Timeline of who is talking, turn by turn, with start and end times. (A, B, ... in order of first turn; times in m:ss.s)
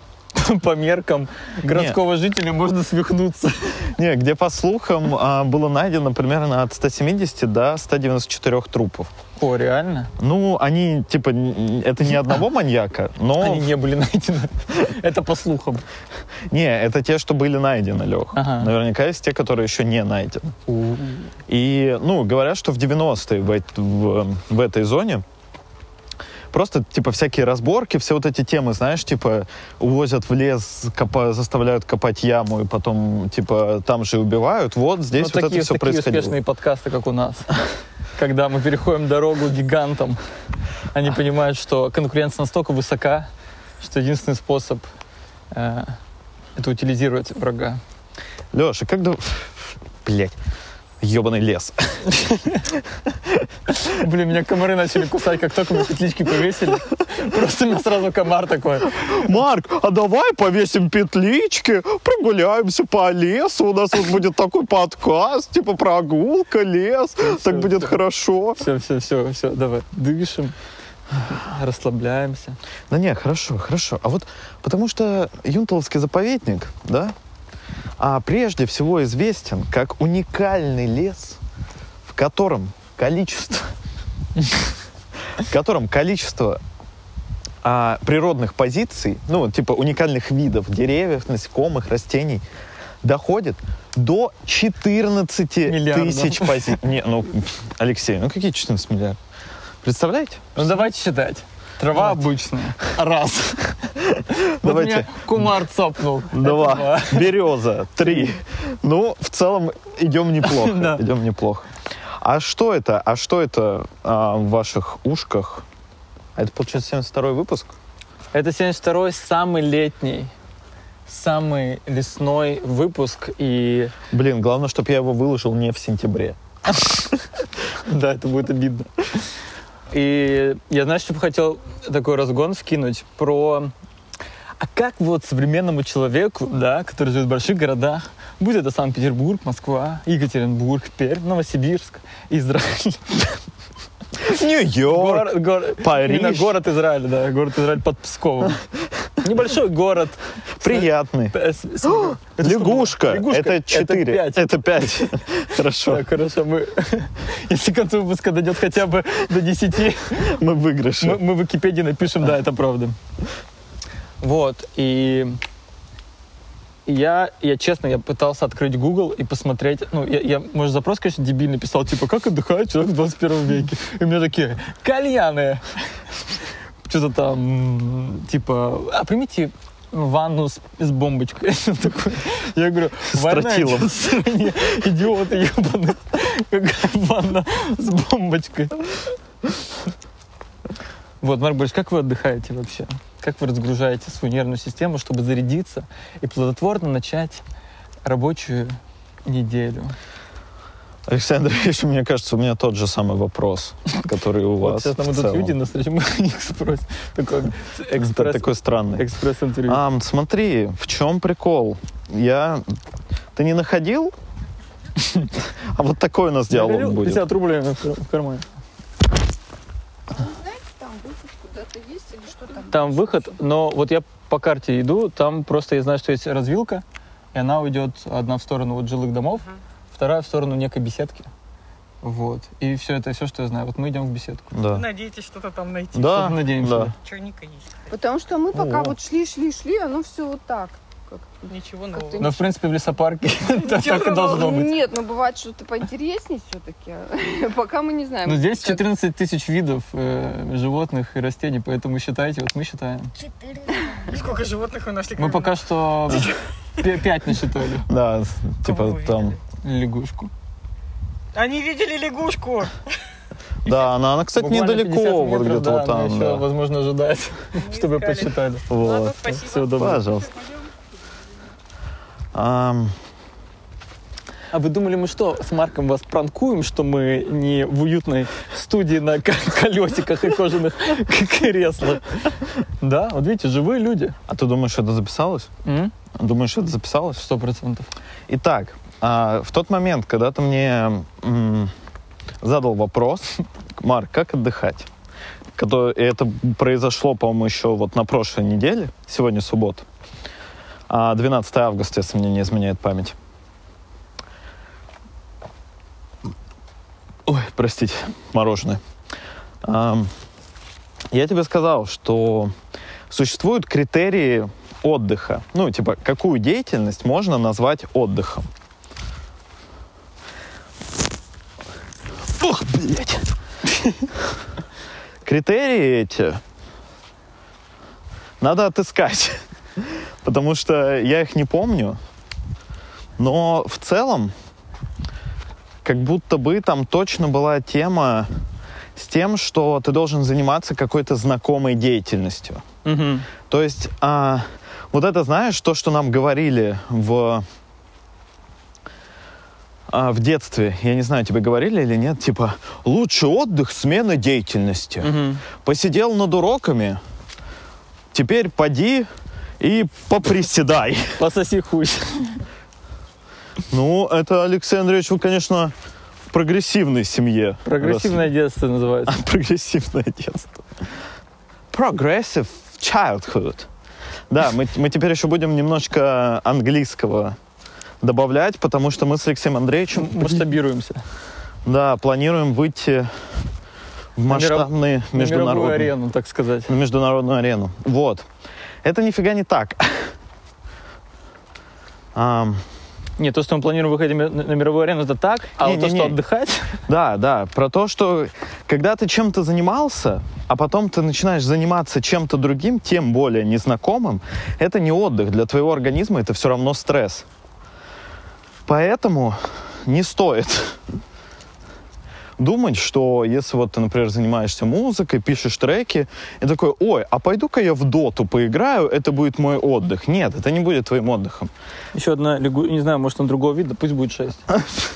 0:00.3-0:03.9 A
0:01.7-0:02.0 B
0:03.9-0:09.1 B
0:09.4-0:10.1 A
0:10.2-0:13.7 B
0:13.4-0:15.8 A
0:16.5-0:20.6 B
0:18.3-0:18.7 A
0:20.7-0:21.3 A
0:21.5-0:25.2 B
0:26.5-0:36.4 B
0:35.1-0:37.6 A
0:38.2-0:40.2 A
0:40.9-0:44.8 A
0:45.5-0:46.0 A
0:46.6-0:47.8 A
0:48.5-0:50.4 B
0:51.0-0:52.2 B
0:52.1-0:52.6 A
0:53.8-0:59.4 A
0:59.0-1:08.6 B
1:07.2-1:07.9 A
1:08.6-1:10.6 A
1:11.3-1:12.6 A
1:12.9-1:17.1 B
1:18.0-1:21.4 B
1:22.1-1:23.8 B
1:25.4-1:26.6 B
1:27.6-1:32.4 B
1:33.0-1:39.2 B
1:35.6-1:36.8 A
1:39.8-1:40.8 B
1:40.6-1:44.0 A
1:44.1-1:45.6 B
1:44.6-1:47.4 A
1:46.3-1:51.7 B
1:50.4-1:51.0 A
1:52.2-1:55.6 B
1:56.4-1:57.7 B
1:58.3-2:00.3 A
2:01.1-2:03.9 A
2:04.1-2:06.4 B
2:07.7-2:09.3 A
2:09.9-2:13.7 A
2:14.6-2:23.4 A
2:24.2-2:26.6 B
2:24.8-2:28.6 A
2:29.2-2:35.2 A
2:30.6-2:36.0 B
2:35.8-2:40.4 A
2:40.1-2:41.2 B
2:41.0-2:43.0 A
2:44.2-2:45.4 A
2:46.9-2:56.1 A
2:56.8-3:09.2 A
3:03.1-3:04.0 B
3:11.2-3:17.4 A
3:18.0-3:20.0 A
3:21.1-3:25.5 B
3:24.6-3:29.8 A
3:27.9-3:29.1 B
3:29.7-3:32.6 B
3:33.4-3:34.1 B
3:35.6-3:37.2 B
3:36.5-3:38.5 A
3:40.2-3:43.3 C
3:42.7-3:51.3 A
3:52.0-3:54.5 A
3:54.5-3:54.8 B
3:54.7-3:56.2 D
3:55.9-3:56.9 B
3:56.0-3:56.9 A
3:57.0-3:57.9 D
3:57.9-4:02.4 C
3:58.5-3:59.0 B
4:01.5-4:02.3 D
4:02.2-4:04.8 A
4:03.7-4:04.3 D
4:03.9-4:08.8 C
4:08.2-4:13.1 A
4:14.0-4:14.4 C
4:14.1-4:16.4 D
4:15.2-4:17.9 A
4:17.9-4:19.4 B
4:18.7-4:19.3 D
4:19.6-4:20.3 A
4:21.4-4:22.8 D
4:23.6-4:26.4 B
4:24.4-4:28.7 A
4:27.6-4:29.7 D
4:28.7-4:30.4 B
4:29.2-4:30.0 A
4:32.3-4:33.0 B
4:34.5-4:44.2 A
4:44.3-4:45.5 B
4:45.6-4:45.9 A
4:46.2-4:47.3 B
4:47.2-4:47.9 A
4:48.3-4:51.7 B
4:52.4-4:54.9 B
4:55.6-4:59.8 B
5:00.9-5:03.2 B
5:07.3-5:08.8 B
5:09.6-5:10.1 B
5:11.1-5:12.5 B
5:13.1-5:18.5 B
5:22.4-5:23.3 B
5:25.2-5:26.4 B
5:28.4-5:32.0 B
5:33.2-5:34.3 B
5:35.8-5:38.3 B
5:39.0-5:42.6 B
5:42.8-5:43.3 A
5:43.5-5:47.4 B
5:49.9-5:57.0 B
5:55.0-5:55.4 A
5:58.1-5:59.1 B
5:59.6-6:01.2 B
6:01.2-6:02.4 A
6:03.7-6:05.7 B
6:06.3-6:08.2 B
6:07.6-6:09.2 A
6:09.1-6:10.6 B
6:11.7-6:13.7 B
6:14.3-6:17.4 B
6:18.0-6:20.4 B
6:19.9-6:21.0 A
6:21.7-6:23.5 B
6:24.2-6:25.9 B
6:24.3-6:26.7 A
6:26.7-6:28.3 B
6:28.8-6:30.2 B
6:32.2-6:32.6 B
6:33.2-6:36.8 A
6:35.6-6:36.2 B
6:36.9-6:47.3 B
6:48.7-6:50.8 B
6:52.4-7:01.5 B
7:01.9-7:04.4 A